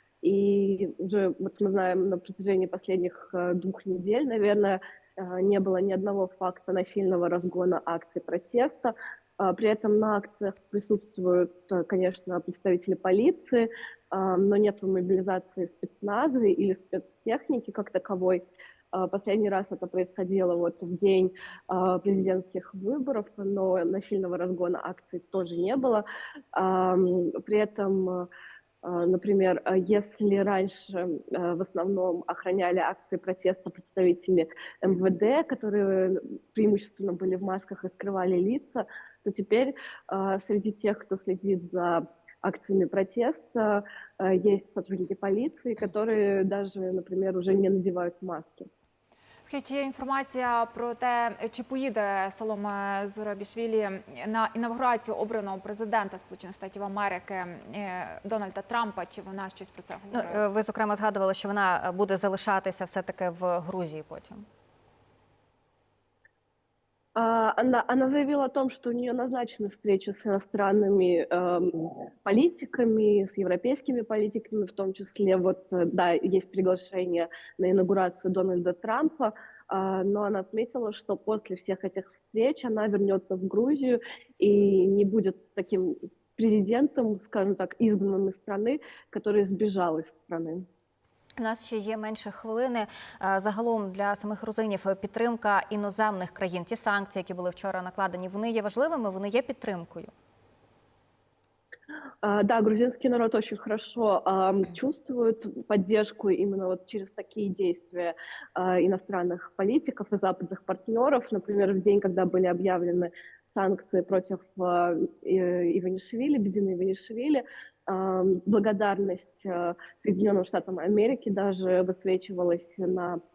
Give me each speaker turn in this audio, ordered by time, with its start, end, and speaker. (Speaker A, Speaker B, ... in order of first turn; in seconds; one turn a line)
Speaker A: 0.2-28.3
Speaker A: 28.8-48.7
Speaker B: 49.4-60.4
Speaker C: 60.1-64.4
Speaker A: 67.2-90.7
Speaker C: 91.4-100.1
Speaker A: 102.2-123.2